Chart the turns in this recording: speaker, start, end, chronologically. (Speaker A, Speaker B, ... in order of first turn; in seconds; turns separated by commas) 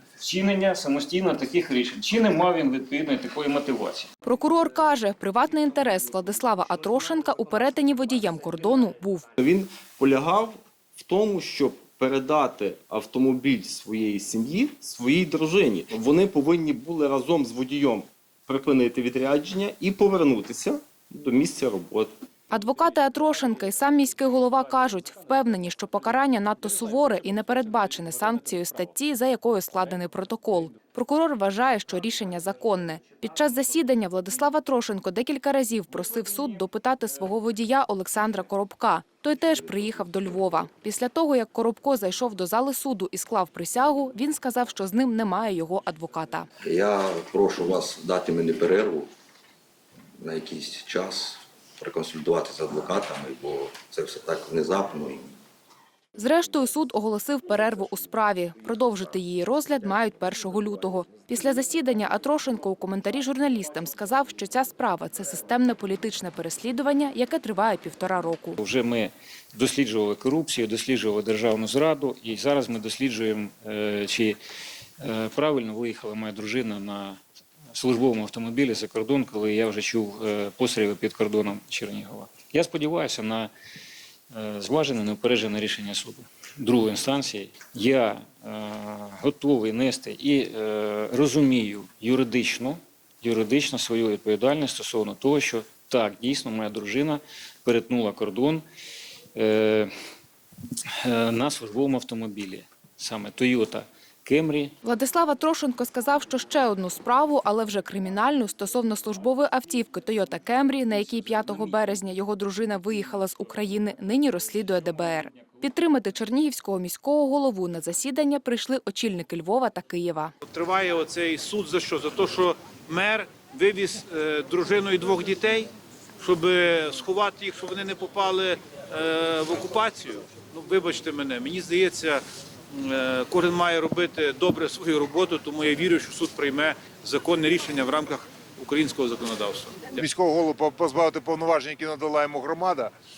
Speaker A: 0.2-4.1, Speaker B: 4.2-9.3, Speaker C: 9.4-22.1, Speaker B: 22.5-46.5, Speaker D: 46.6-49.1, Speaker D: 50.2-55.3, Speaker B: 56.2-68.6, Speaker A: 68.6-74.4, Speaker A: 75.0-77.2, Speaker A: 77.7-83.5, Speaker A: 84.3-98.6, Speaker A: 99.3-99.9, Speaker A: 101.0-104.7, Speaker B: 104.8-120.3, Speaker E: 120.5-132.2, Speaker E: 132.7-140.0, Speaker F: 140.0-142.9